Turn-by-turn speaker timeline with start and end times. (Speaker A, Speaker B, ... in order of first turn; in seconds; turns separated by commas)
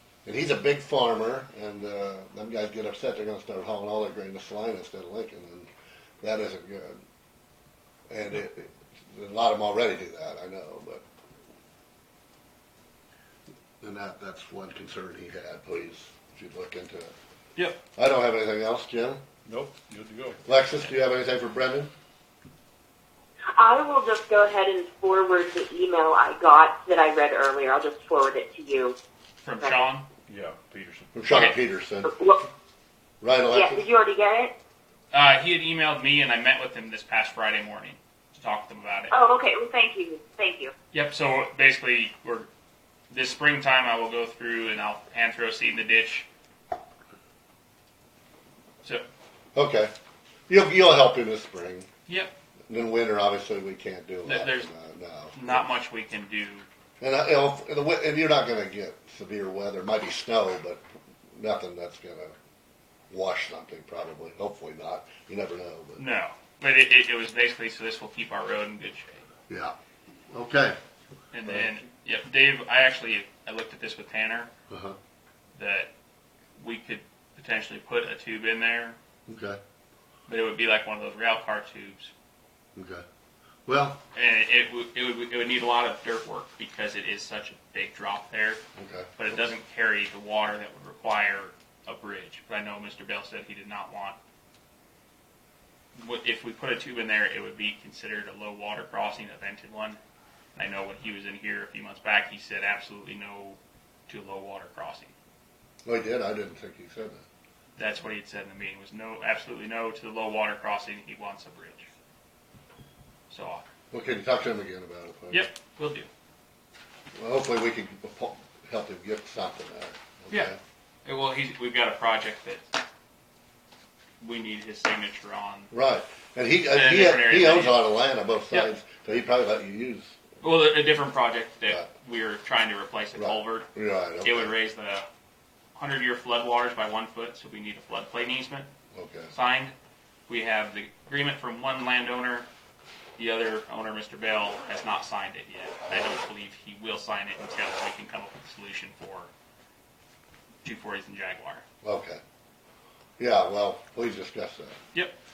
Speaker A: 0.2-5.7, Speaker A: 6.2-7.0, Speaker A: 8.1-11.0, Speaker A: 13.8-17.1, Speaker A: 17.9-19.2, Speaker B: 19.4-20.4, Speaker A: 20.4-21.9, Speaker C: 23.6-28.9, Speaker D: 29.4-30.1, Speaker B: 30.3-31.2, Speaker A: 31.1-32.1, Speaker D: 31.3-31.6, Speaker C: 32.0-32.4, Speaker A: 33.2-33.9, Speaker C: 33.5-34.5, Speaker D: 35.1-39.2, Speaker C: 39.1-40.7, Speaker D: 40.9-42.5, Speaker D: 43.1-46.2, Speaker A: 49.5-49.9, Speaker A: 50.5-51.9, Speaker D: 52.1-52.3, Speaker A: 52.7-55.6, Speaker D: 54.2-54.7, Speaker D: 55.3-56.6, Speaker A: 57.0-60.8, Speaker A: 61.3-62.3, Speaker A: 63.1-66.0, Speaker D: 66.0-69.2, Speaker A: 69.5-69.7, Speaker A: 70.3-70.8, Speaker D: 71.3-74.5, Speaker A: 74.7-75.0, Speaker D: 75.5-75.9, Speaker D: 76.6-79.0, Speaker A: 79.3-79.6, Speaker D: 80.3-82.1, Speaker A: 82.8-83.0, Speaker A: 83.7-84.0, Speaker D: 84.1-88.6, Speaker A: 88.8-89.4, Speaker D: 89.2-94.2, Speaker D: 96.0-100.0, Speaker D: 100.5-105.1, Speaker A: 105.8-107.2, Speaker D: 107.8-111.9, Speaker D: 113.3-113.6, Speaker A: 113.9-115.5, Speaker D: 115.3-116.1, Speaker A: 117.2-120.6, Speaker D: 121.0-122.8, Speaker D: 124.2-125.7, Speaker A: 125.7-130.2, Speaker D: 126.7-127.9, Speaker D: 130.4-133.7, Speaker A: 133.2-134.5, Speaker D: 134.2-135.0, Speaker D: 135.8-138.7, Speaker A: 138.9-139.3, Speaker D: 139.3-139.7, Speaker D: 140.3-142.5, Speaker D: 143.2-149.3, Speaker D: 150.6-151.6, Speaker A: 151.8-152.2, Speaker A: 153.2-154.8